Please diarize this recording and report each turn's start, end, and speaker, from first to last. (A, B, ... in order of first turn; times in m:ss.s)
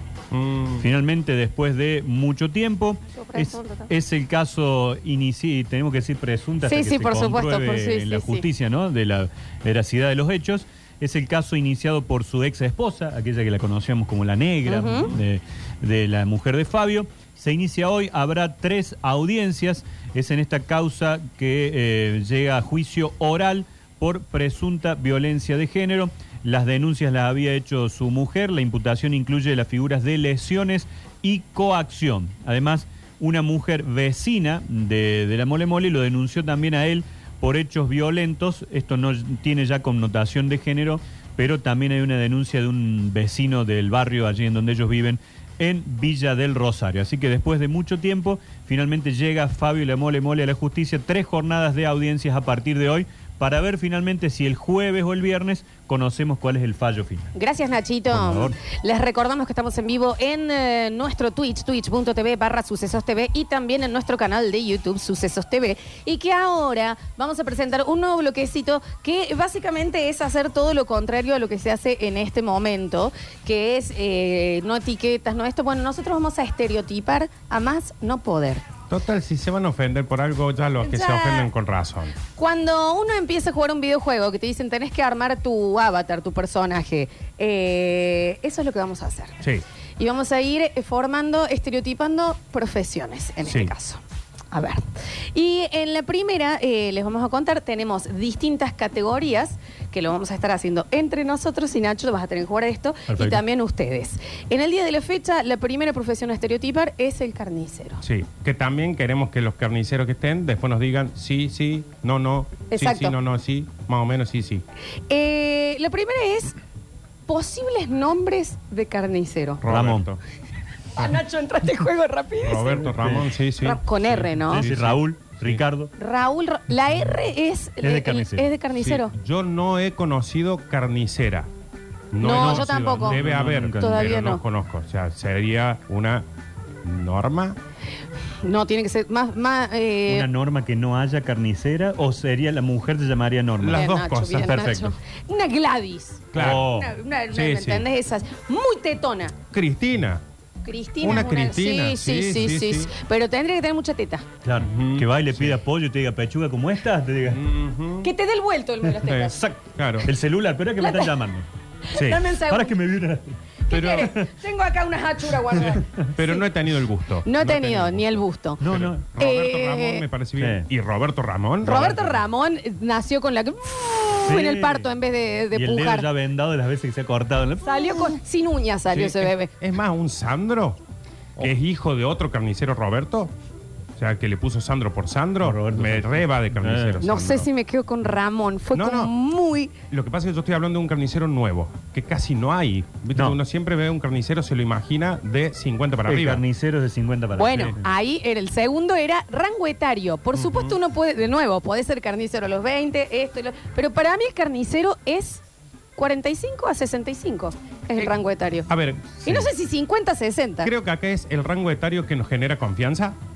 0:00.3-0:00.9 A
0:00.8-0:57.3 B
0:03.1-0:03.9 C
0:06.6-0:08.5 C
0:14.7-0:15.2 C
0:57.3-1:18.6 C
0:58.1-0:58.6 B
1:18.9-1:22.2 A
1:20.8-1:21.5 C
1:22.3-1:29.4 C
1:30.0-1:34.0 C
1:33.5-1:33.7 A
1:34.5-1:34.8 C
1:35.3-1:48.0 C
1:43.1-1:43.4 B
1:48.0-1:54.6 A
1:52.7-1:53.2 C
1:55.1-1:56.6 C
1:57.3-1:59.6 C
1:59.6-2:00.2 A
1:59.7-2:00.1 B
2:01.0-2:02.9 C
2:02.4-2:05.6 A
2:02.8-2:03.3 B
2:03.6-2:04.7 C
2:04.2-2:05.9 B
2:06.0-2:09.1 C
2:07.8-2:08.5 B
2:08.8-2:11.5 A
2:12.1-2:16.2 A
2:12.2-2:13.2 C
2:12.2-2:14.1 B
2:13.8-2:14.4 C
2:16.8-2:17.6 A
2:18.4-2:20.3 C
2:20.1-2:24.9 B
2:23.6-2:24.8 A
2:23.7-2:29.4 C
2:26.3-2:26.7 A
2:26.4-2:26.9 B
2:27.3-2:27.8 A
2:29.5-2:30.2 A
2:30.6-2:34.3 C
2:31.0-2:32.9 A
2:34.4-2:37.4 B
2:34.6-2:35.6 A
2:37.3-2:38.1 A
2:38.0-2:39.4 C
2:38.9-2:41.5 B
2:39.0-2:40.1 A
2:40.8-2:41.2 C
2:41.8-2:42.8 C
2:42.0-2:42.2 A
2:42.4-2:43.4 B
2:43.7-2:46.4 C
2:43.7-2:44.1 A
2:43.9-2:44.3 B
2:45.6-2:46.1 B
2:46.2-2:52.2 A
2:47.2-2:48.6 C
2:48.6-2:49.0 B
2:49.2-2:50.0 C
2:50.4-2:50.7 B
2:51.6-2:56.1 C
2:54.2-2:54.9 B
2:55.5-2:58.0 B
2:57.6-2:59.5 C
2:58.9-3:00.8 A
3:01.4-3:03.3 A
3:04.0-3:07.5 A
3:05.4-3:07.0 B
3:07.0-3:09.7 C
3:08.8-3:09.1 A
3:09.9-3:16.4 A
3:16.1-3:17.9 B
3:17.4-3:25.4 C
3:20.4-3:20.8 A
3:26.0-3:28.7 C
3:28.7-3:29.5 A
3:29.2-3:30.7 C
3:30.6-3:33.2 A